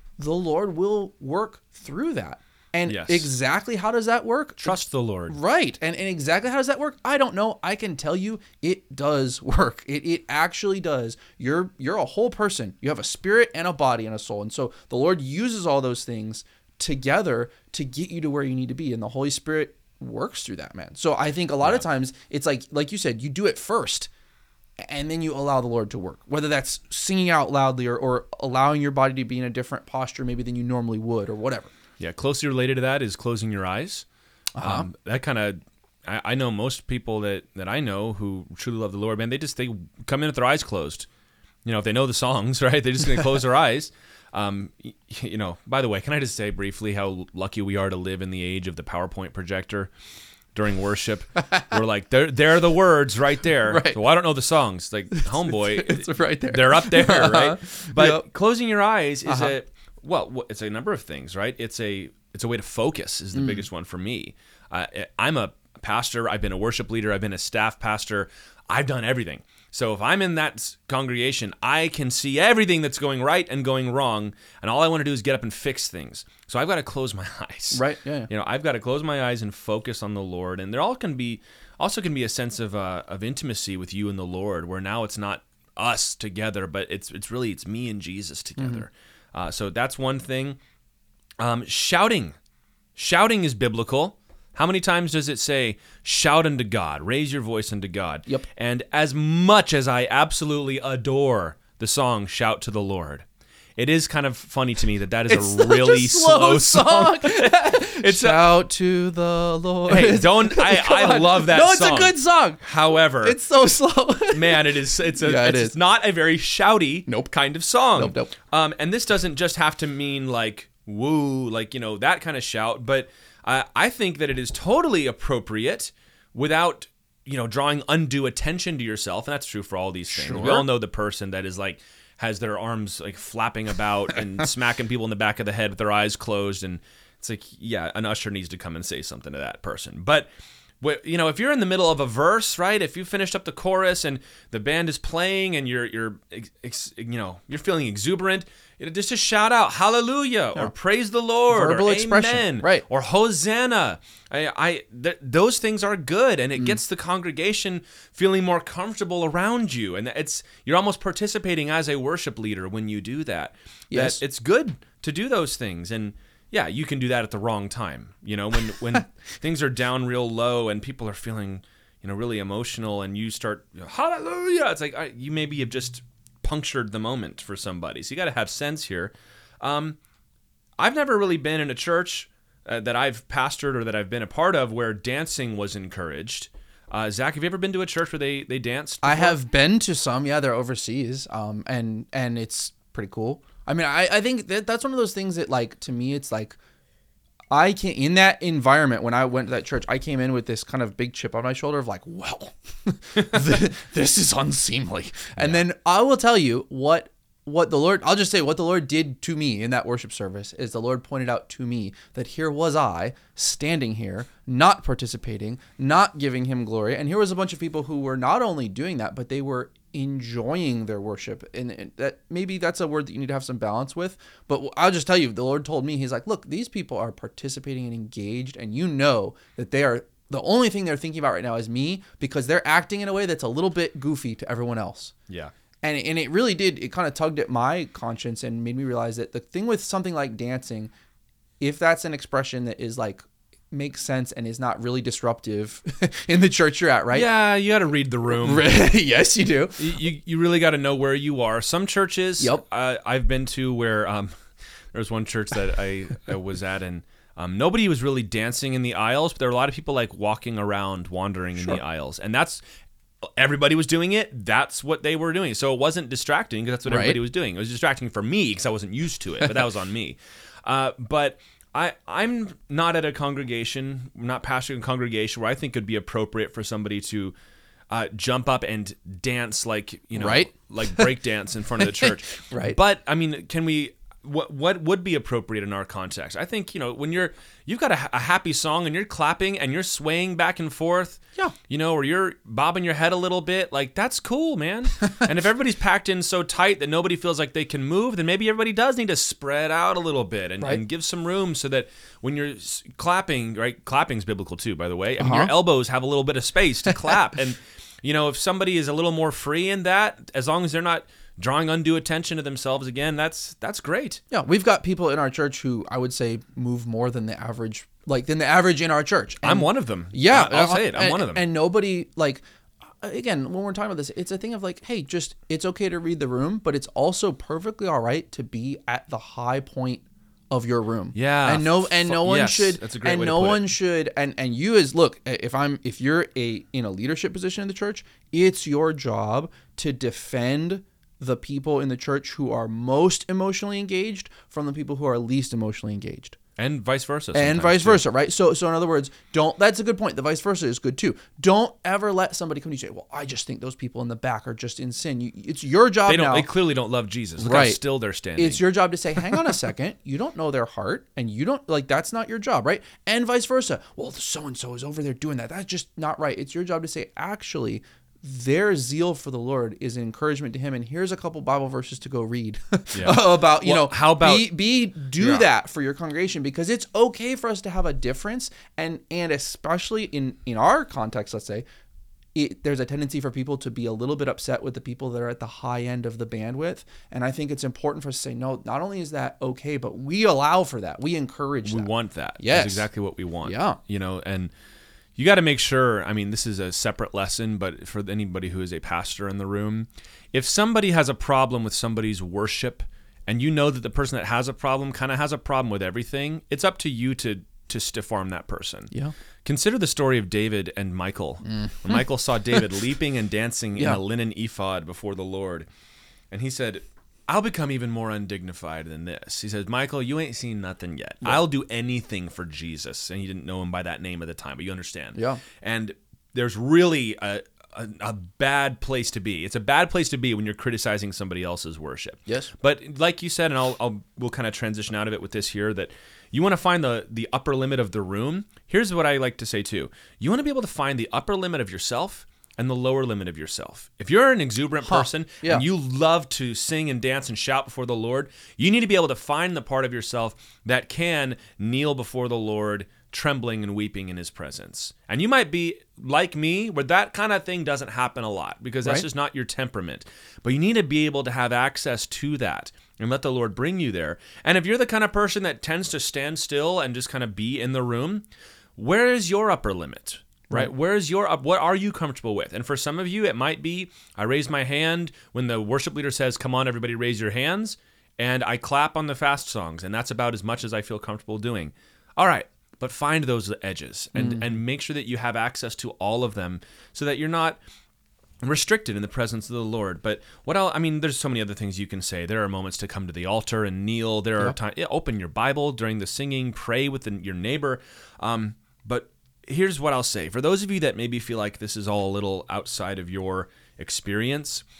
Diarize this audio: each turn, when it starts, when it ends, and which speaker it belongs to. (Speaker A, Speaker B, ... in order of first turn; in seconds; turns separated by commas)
Speaker A: 0.2-24.1, Speaker B: 2.9-3.3, Speaker B: 4.6-5.3, Speaker A: 24.8-31.7, Speaker B: 32.0-34.0, Speaker A: 34.5-34.9, Speaker B: 34.6-41.1, Speaker B: 41.6-49.9, Speaker B: 50.5-90.6, Speaker A: 53.6-54.0, Speaker A: 55.1-58.2, Speaker A: 59.2-59.5, Speaker A: 63.3-63.6, Speaker A: 77.7-78.3, Speaker A: 88.6-88.8, Speaker B: 91.4-92.3, Speaker B: 93.0-103.2, Speaker B: 103.8-108.5, Speaker A: 105.3-112.6, Speaker B: 109.9-113.4, Speaker A: 113.2-115.8, Speaker B: 114.3-140.3, Speaker A: 118.0-118.3, Speaker A: 130.1-130.7, Speaker B: 140.8-180.0, Speaker A: 151.5-152.8, Speaker A: 163.9-164.2, Speaker B: 180.8-189.4, Speaker A: 189.0-196.6, Speaker A: 197.5-235.1, Speaker B: 205.3-205.6, Speaker A: 235.8-240.9, Speaker A: 241.6-247.3, Speaker B: 247.1-248.7, Speaker A: 248.3-250.0, Speaker B: 249.8-254.3, Speaker B: 254.9-262.6, Speaker B: 263.4-277.3, Speaker A: 266.9-267.2, Speaker B: 277.9-314.2, Speaker A: 280.1-281.1, Speaker A: 281.8-282.8, Speaker A: 305.2-305.5, Speaker A: 314.3-322.4, Speaker B: 319.4-321.5, Speaker A: 323.0-346.4, Speaker B: 331.1-333.7, Speaker B: 346.6-348.0, Speaker A: 347.3-356.5, Speaker B: 356.1-358.6, Speaker A: 357.4-357.8, Speaker A: 358.4-381.6, Speaker B: 372.9-374.5, Speaker B: 375.2-375.5, Speaker A: 382.3-392.9, Speaker B: 391.6-394.5, Speaker A: 393.4-393.8, Speaker B: 395.1-408.9, Speaker B: 409.4-415.7, Speaker A: 411.4-412.0, Speaker B: 416.3-468.2, Speaker A: 425.1-425.4, Speaker A: 432.3-432.5, Speaker A: 444.8-445.6, Speaker B: 468.8-487.6, Speaker A: 484.1-484.6, Speaker B: 488.4-504.6